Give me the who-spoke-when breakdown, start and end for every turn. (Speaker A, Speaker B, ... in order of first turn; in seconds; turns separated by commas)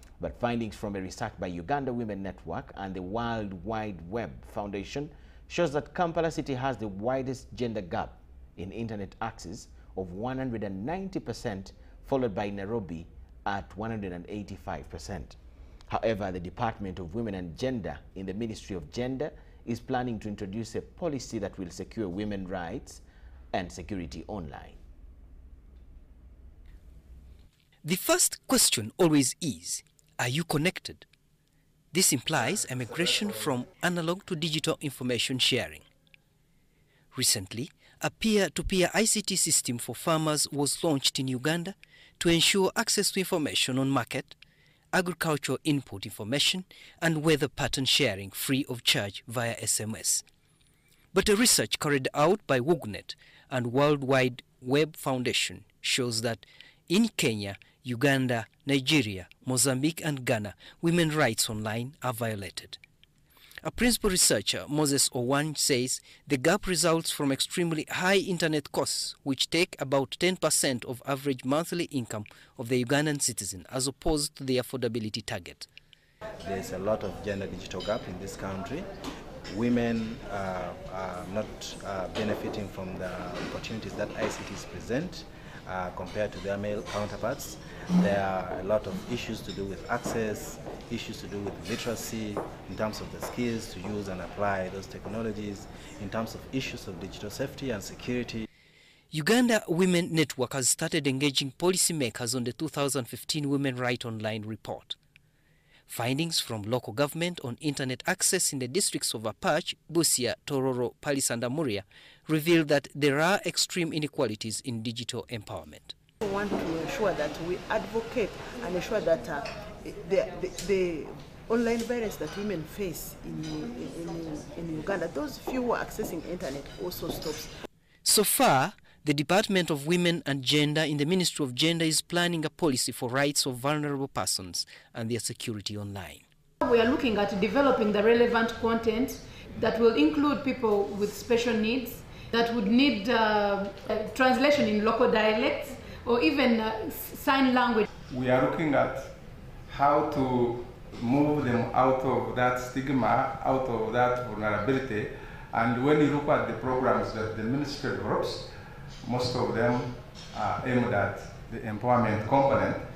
Speaker A: 0.2-15.4, Speaker A: 15.9-24.8, Speaker B: 27.8-31.1, Speaker B: 31.9-35.8, Speaker B: 37.1-44.4, Speaker B: 44.9-50.2, Speaker B: 51.1-62.8, Speaker B: 63.6-75.7, Speaker C: 76.4-78.9, Speaker C: 79.5-98.4, Speaker B: 99.1-105.0, Speaker B: 105.9-115.9, Speaker D: 116.2-127.5, Speaker B: 128.0-136.2, Speaker E: 136.6-147.9, Speaker F: 148.1-149.1, Speaker F: 149.7-158.4, Speaker F: 159.0-162.8